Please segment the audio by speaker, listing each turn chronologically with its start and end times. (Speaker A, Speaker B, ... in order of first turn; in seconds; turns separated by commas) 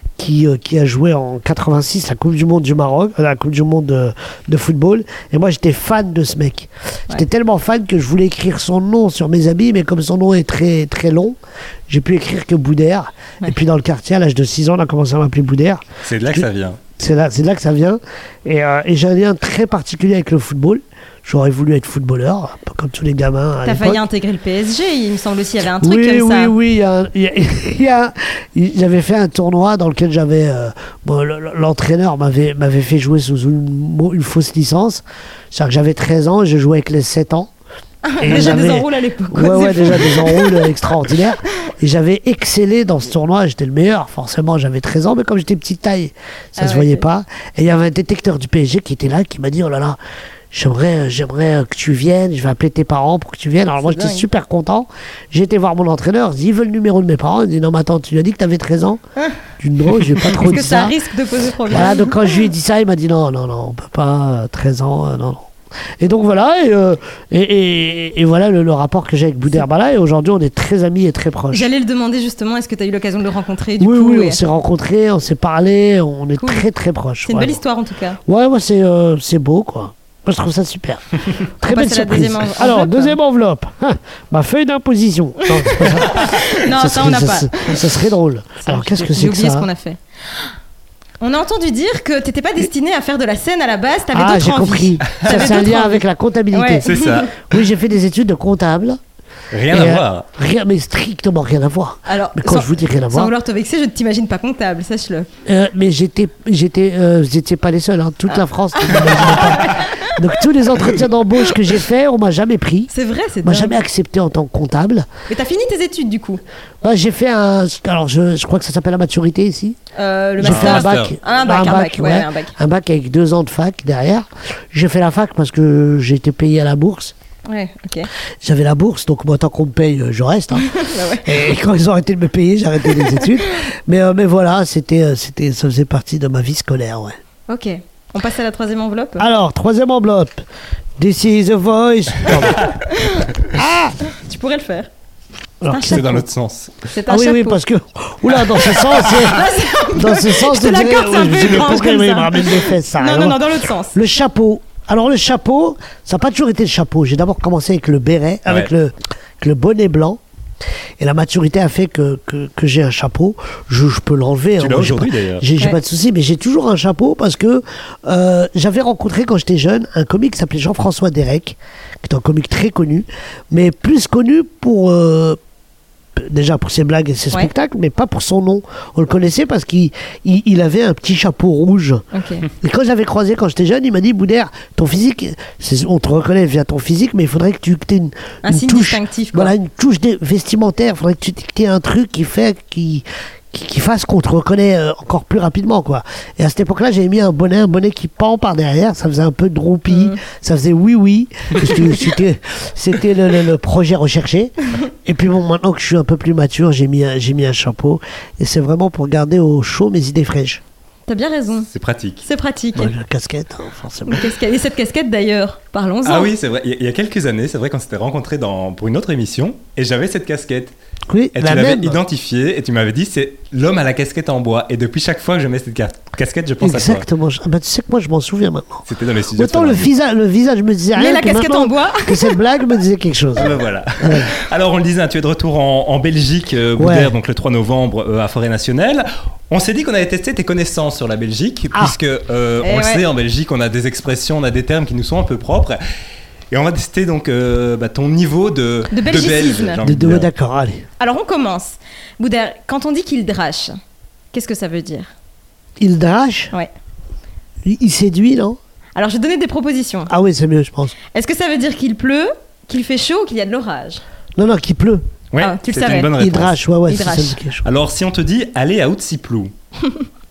Speaker A: 0.2-11.3, Speaker A: 11.9-16.4, Speaker B: 16.0-16.8, Speaker A: 17.0-24.0, Speaker C: 23.6-26.5, Speaker A: 25.8-37.5, Speaker C: 38.0-40.7, Speaker A: 38.2-50.0, Speaker C: 46.6-47.0, Speaker A: 50.5-59.0, Speaker C: 53.8-54.3, Speaker A: 59.6-60.9, Speaker C: 60.3-62.1, Speaker A: 61.6-65.5, Speaker A: 66.0-71.7, Speaker C: 71.5-74.4, Speaker A: 73.8-77.6, Speaker C: 76.4-76.7, Speaker C: 77.2-78.2, Speaker A: 78.2-81.0, Speaker A: 81.6-89.7, Speaker C: 81.6-83.2, Speaker C: 85.5-87.9, Speaker C: 88.6-90.5, Speaker C: 91.2-97.3, Speaker A: 94.1-99.0, Speaker B: 95.1-95.5, Speaker B: 96.8-97.3, Speaker B: 99.5-100.2, Speaker A: 99.7-103.3, Speaker C: 102.1-105.3, Speaker A: 105.5-112.9, Speaker C: 108.3-110.3, Speaker C: 112.9-113.8, Speaker A: 113.4-115.1, Speaker C: 115.3-116.4, Speaker A: 116.8-119.8, Speaker C: 120.0-122.5, Speaker B: 120.4-121.2, Speaker A: 120.4-127.1, Speaker C: 127.5-128.1, Speaker A: 128.4-137.2, Speaker C: 130.5-131.5, Speaker C: 132.9-133.4, Speaker C: 137.5-139.2, Speaker A: 139.2-140.4, Speaker A: 141.0-142.8, Speaker C: 142.9-143.3, Speaker A: 143.5-144.0, Speaker C: 144.1-144.9, Speaker A: 145.6-146.2, Speaker C: 145.7-146.2, Speaker B: 145.7-146.8, Speaker C: 146.8-147.6, Speaker A: 147.1-149.4, Speaker C: 148.7-153.9, Speaker A: 149.9-160.2, Speaker A: 161.0-175.4, Speaker B: 164.6-165.5, Speaker A: 176.2-210.6, Speaker C: 182.1-182.5, Speaker C: 188.4-189.5, Speaker C: 199.9-200.2, Speaker C: 211.1-211.7, Speaker B: 211.7-212.2, Speaker C: 212.2-212.9, Speaker A: 212.7-214.3, Speaker C: 214.1-216.3, Speaker B: 216.0-220.7, Speaker A: 221.1-222.0, Speaker B: 221.3-227.1, Speaker A: 226.6-234.3, Speaker B: 228.8-229.9, Speaker C: 230.9-232.4, Speaker B: 233.3-245.8, Speaker A: 236.8-237.1, Speaker C: 242.6-243.0, Speaker B: 246.5-250.3, Speaker C: 248.9-249.8, Speaker A: 249.8-250.8, Speaker C: 251.0-253.7, Speaker C: 254.3-255.1, Speaker A: 255.8-256.5, Speaker A: 257.6-258.6, Speaker C: 258.9-260.1, Speaker A: 260.1-260.9, Speaker C: 261.1-264.0, Speaker A: 264.4-265.0, Speaker B: 265.3-266.6, Speaker C: 265.4-266.2, Speaker A: 266.2-267.6, Speaker C: 266.9-267.4, Speaker B: 267.6-269.5